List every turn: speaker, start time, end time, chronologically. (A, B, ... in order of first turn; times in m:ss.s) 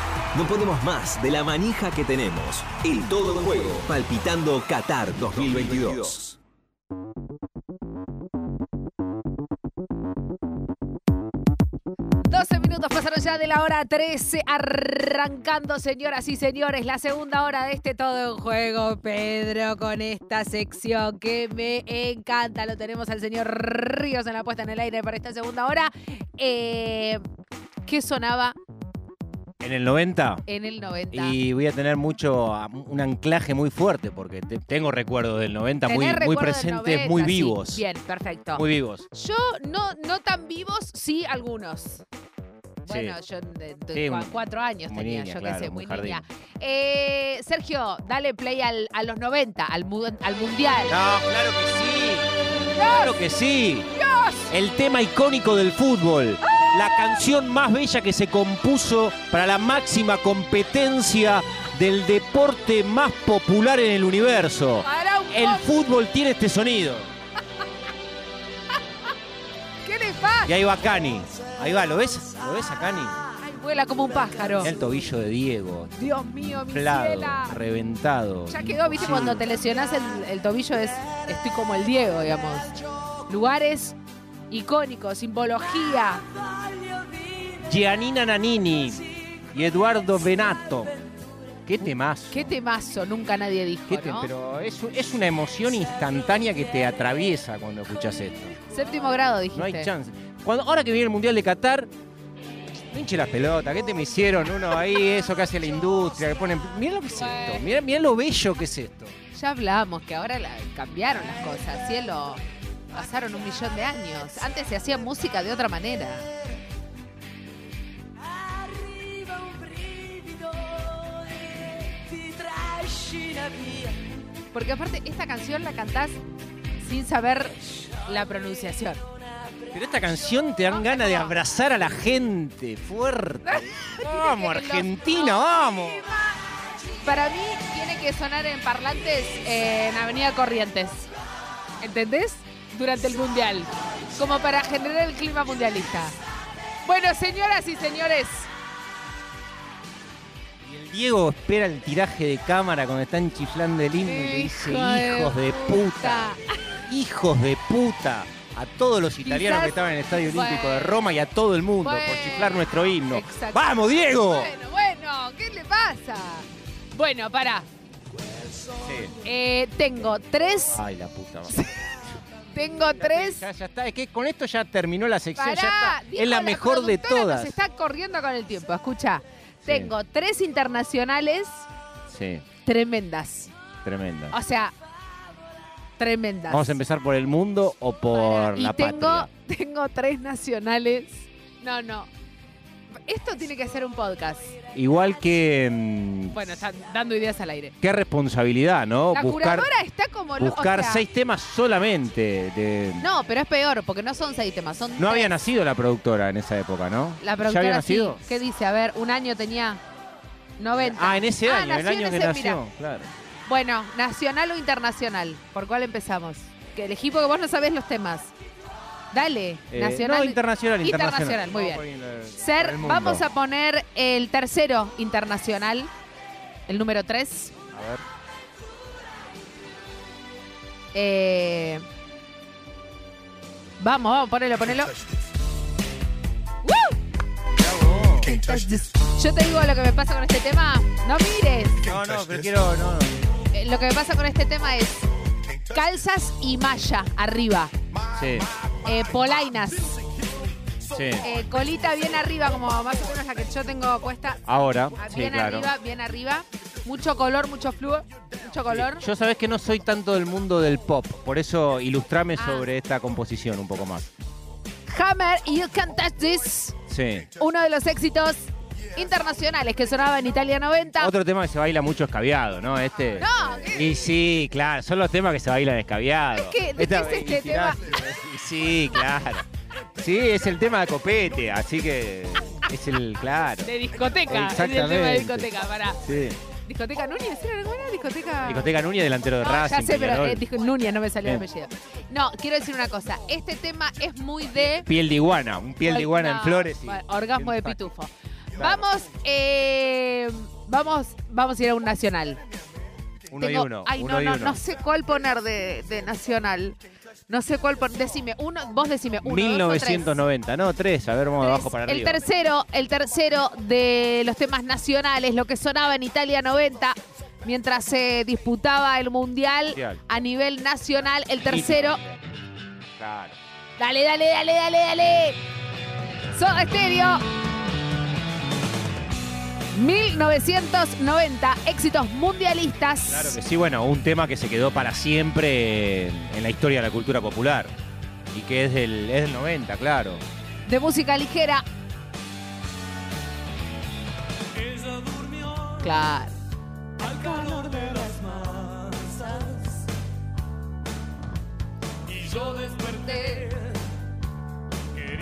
0:00.3-0:06.4 A
0:12.2-0:27.2 B
0:27.8-0:28.6 B
0:29.6-0:30.4 C
0:30.5-0:31.4 B
0:31.1-0:37.8 C
0:35.9-0:42.0 B
0:38.5-0:39.0 C
0:42.8-0:51.0 B
0:42.9-0:43.2 C
0:43.9-0:44.3 C
0:44.8-0:46.2 C
0:50.9-0:53.9 C
0:52.7-0:53.1 B
0:53.9-0:54.5 B
0:54.5-1:07.1 C
0:56.5-0:57.1 B
1:04.8-1:05.6 B
1:09.8-1:10.5 B
1:10.4-1:13.2 C
1:13.3-1:14.7 B
1:14.6-1:19.4 C
1:16.0-1:17.6 B
1:18.5-1:24.0 B
1:24.5-1:26.2 B
1:27.6-1:31.0 C
1:31.6-1:32.5 C
1:32.3-1:34.3 B
1:33.9-1:38.5 C
1:38.7-1:39.9 B
1:39.5-1:41.9 C
1:42.9-1:49.2 C
1:47.2-1:47.6 B
1:49.3-1:56.3 B
1:58.6-2:04.0 D
2:04.5-2:06.2 B
2:06.8-2:09.0 B
2:09.7-2:16.1 C
2:10.7-2:11.3 B
2:13.4-2:16.2 B
2:17.0-2:21.1 B
2:21.8-2:26.2 B
2:26.8-2:28.5 B
2:30.6-2:36.4 C
2:34.0-2:36.8 B
2:36.9-2:44.5 C
2:39.2-2:41.0 B
2:41.8-2:47.6 B
2:48.8-2:49.1 C
2:49.2-2:50.8 B
2:50.7-2:51.9 C
2:51.6-2:51.9 B
2:52.5-2:53.4 B
2:53.0-2:57.6 C
2:55.4-3:01.7 B
2:59.6-2:59.9 C
3:02.1-3:02.4 C
3:02.6-3:03.5 B
3:03.8-3:04.4 C
3:04.3-3:04.7 B
3:06.0-3:06.8 B
3:06.5-3:09.3 C
3:08.1-3:12.1 B
3:13.0-3:14.5 B
3:14.7-3:16.4 C
3:16.3-3:17.7 B
3:17.8-3:19.7 C
3:19.1-3:21.0 B
3:20.4-3:23.1 C
3:23.0-3:25.3 B
3:25.0-3:28.2 C
3:27.2-3:29.8 B
3:30.6-3:32.6 B
3:30.8-3:33.1 C
3:33.4-3:38.3 B
3:39.1-3:41.8 B
3:39.7-3:43.2 C
3:42.4-3:45.9 B
3:46.7-3:47.5 B
3:47.7-3:48.0 C
3:50.9-3:51.8 B
3:53.8-3:55.0 B
3:56.6-3:57.0 B
3:57.6-3:58.4 C
3:58.2-4:01.9 B
4:01.8-4:03.2 C
4:03.5-4:05.0 B
4:05.7-4:07.7 B
4:08.1-4:08.5 C
4:08.8-4:10.0 B
4:10.9-4:11.3 C
4:11.2-4:14.4 B
4:14.4-4:15.7 C
4:14.9-4:19.0 B
4:18.7-4:24.1 C
4:22.4-4:22.7 B
4:24.9-4:26.8 B
4:26.9-4:27.3 C
4:27.3-4:31.1 B
4:31.0-4:39.4 C
4:33.2-4:33.9 B
4:36.3-4:38.0 B
4:40.0-4:43.7 C
4:43.6-4:46.0 B
4:44.3-4:45.5 C
4:46.0-4:46.4 C
4:46.6-4:48.7 B
4:48.4-4:50.4 C
4:49.4-4:54.9 B
4:54.6-4:57.9 C
4:55.8-5:02.4 B
5:03.3-5:04.6 C
5:03.3-5:10.2 B
5:09.2-5:12.2 C
5:11.4-5:22.0 B
5:19.7-5:20.0 C
5:21.4-5:22.3 C
5:23.0-5:23.4 C
5:23.8-5:25.4 B
5:26.3-5:27.3 B
5:29.7-5:33.4 B
5:33.1-5:37.7 C
5:38.3-5:40.2 C
5:40.6-5:41.6 B
5:45.6-5:46.4 B
5:47.0-5:49.6 B
5:52.2-5:53.6 B